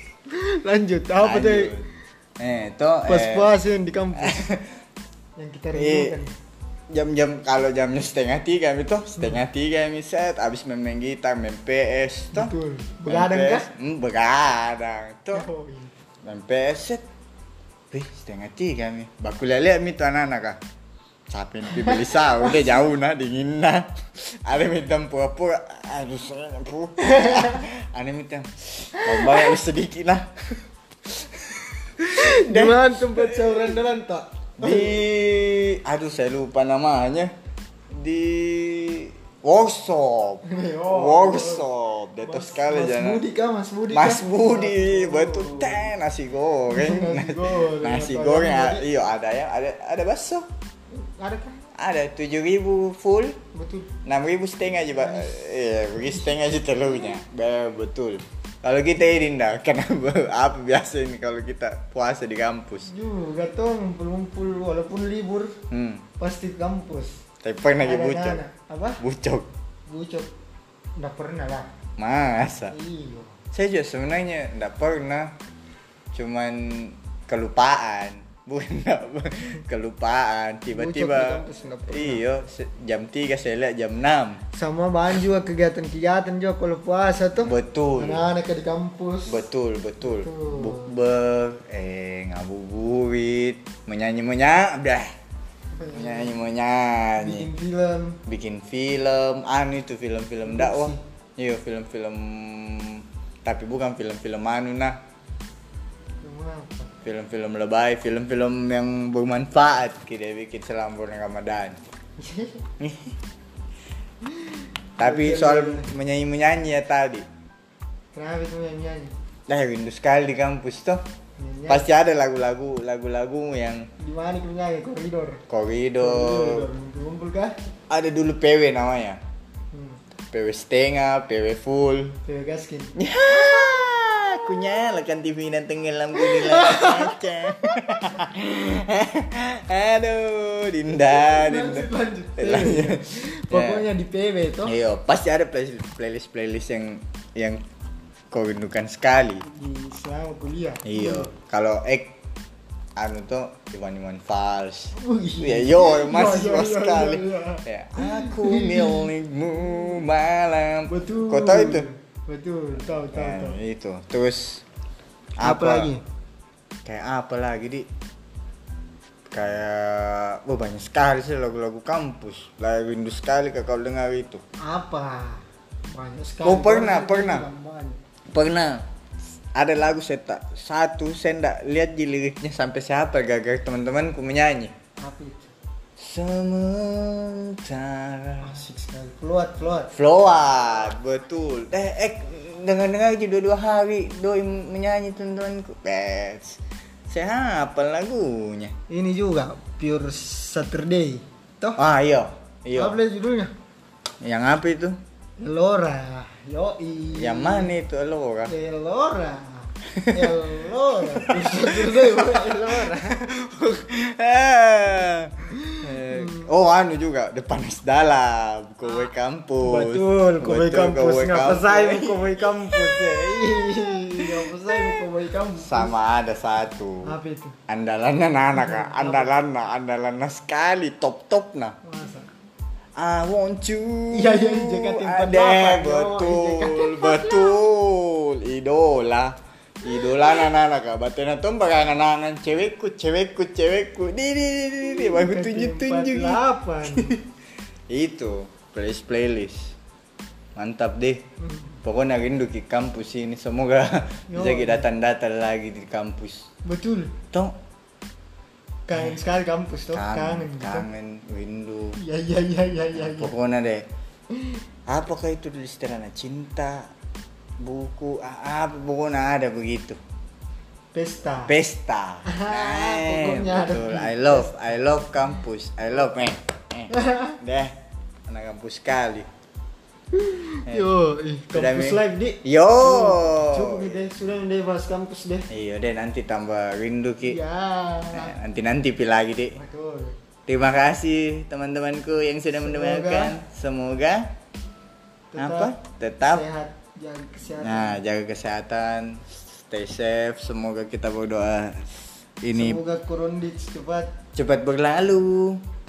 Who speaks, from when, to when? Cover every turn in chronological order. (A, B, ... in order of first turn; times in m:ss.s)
0:00.3-0:01.7 A
0:01.2-0:01.9 B
0:02.4-0:03.5 B
0:03.0-0:04.4 A
0:04.1-0:04.7 B
0:05.4-0:06.3 A
0:05.7-0:06.1 B
0:06.9-0:12.5 B
0:12.3-0:13.7 A
0:13.1-0:15.5 B
0:15.3-0:15.9 A
0:16.2-0:17.0 B
0:17.9-0:20.6 B
0:21.3-0:33.7 B
0:21.8-0:22.4 A
0:27.0-0:27.6 A
0:29.0-0:29.5 A
0:32.0-0:35.0 A
0:34.6-0:37.3 B
0:37.9-0:43.2 B
0:40.4-0:41.7 A
0:42.2-0:45.9 A
0:43.9-0:50.5 B
0:46.7-0:48.8 A
0:50.9-0:51.6 A
0:51.8-0:53.4 B
0:53.5-0:53.9 A
0:54.0-1:02.9 B
0:54.9-0:56.3 A
1:02.9-1:05.6 A
1:05.7-1:06.0 B
1:06.2-1:07.2 A
1:07.4-1:08.4 B
1:07.8-1:09.0 A
1:09.0-1:09.5 B
1:09.9-1:10.3 A
1:11.0-1:11.7 A
1:12.0-1:12.7 B
1:12.7-1:13.4 A
1:13.5-1:15.4 B
1:16.1-1:24.4 B
1:20.7-1:22.2 A
1:24.5-1:29.4 A
1:27.4-1:28.2 B
1:29.2-1:35.1 B
1:30.0-1:31.0 A
1:35.7-1:36.4 A
1:35.9-1:37.5 B
1:37.2-1:38.2 A
1:38.2-1:45.0 B
1:40.4-1:41.0 A
1:46.2-1:46.9 A
1:47.0-1:51.8 B
1:52.2-1:52.6 A
1:52.8-1:53.2 B
1:54.3-1:55.9 A
1:55.0-1:57.2 B
1:58.1-1:59.1 A
1:59.5-2:01.0 B
2:01.4-2:01.9 A
2:01.7-2:03.9 B
2:04.0-2:05.4 A
2:05.5-2:06.7 B
2:06.0-2:07.5 A
2:07.9-2:09.2 B
2:09.7-2:10.0 A
2:10.2-2:12.2 B
2:12.2-2:12.9 A
2:13.0-2:23.8 B
2:16.5-2:17.0 A
2:21.2-2:24.7 A
2:24.6-2:27.6 B
2:28.3-2:29.4 B
2:29.4-2:31.3 A
2:30.8-2:32.2 B
2:33.0-2:41.8 B
2:34.9-2:39.1 A
2:40.9-2:43.6 A
2:43.1-2:44.6 B
2:45.4-2:45.9 B
2:45.4-2:46.0 A
2:46.8-2:47.9 B
2:49.3-2:54.4 B
2:54.6-2:58.0 A
2:56.4-2:57.4 B
2:58.3-2:58.8 B
2:59.5-3:04.7 B
3:05.0-3:05.5 A
3:06.0-3:08.6 B
3:08.4-3:09.9 A
3:09.9-3:18.7 B
3:18.9-3:21.8 A
3:21.8-3:23.0 B
3:22.7-3:23.5 A
3:24.2-3:25.0 B
3:25.4-3:27.7 A
3:27.1-3:28.5 B
3:28.5-3:33.2 A
3:29.9-3:45.0 B
3:35.6-3:36.4 A
3:39.6-3:45.9 A
3:45.6-3:47.1 B
3:47.0-3:47.6 A
3:47.7-3:51.8 B
3:48.5-3:49.3 A
3:51.8-3:52.3 A
3:53.0-4:07.2 B
3:54.1-3:57.4 A
4:04.8-4:07.1 A
4:07.9-4:09.8 B
4:10.6-4:11.2 B
4:11.4-4:11.8 A
4:11.8-4:16.5 B
4:14.3-4:14.8 A
4:16.6-4:17.2 A
4:18.9-4:20.8 A
4:19.9-4:22.0 B
4:22.0-4:23.3 A
4:23.0-4:23.9 B
4:24.3-4:24.6 A
4:24.9-4:26.9 B
4:27.6-4:30.0 B
4:30.9-4:31.5 A
4:31.4-4:37.7 B
4:32.2-4:34.5 A
4:36.9-4:37.4 A
4:38.3-4:39.3 B
4:40.1-4:45.5 A
4:41.5-4:44.0 B
4:45.5-4:47.4 B
4:47.2-4:48.4 A
4:48.1-4:49.6 B
4:49.5-4:50.1 A
4:50.5-4:54.3 B
4:52.6-4:53.4 A
4:55.3-4:58.0 A
4:55.4-4:56.4 B
4:57.6-5:02.8 B
5:02.5-5:04.1 A
5:04.3-5:05.6 B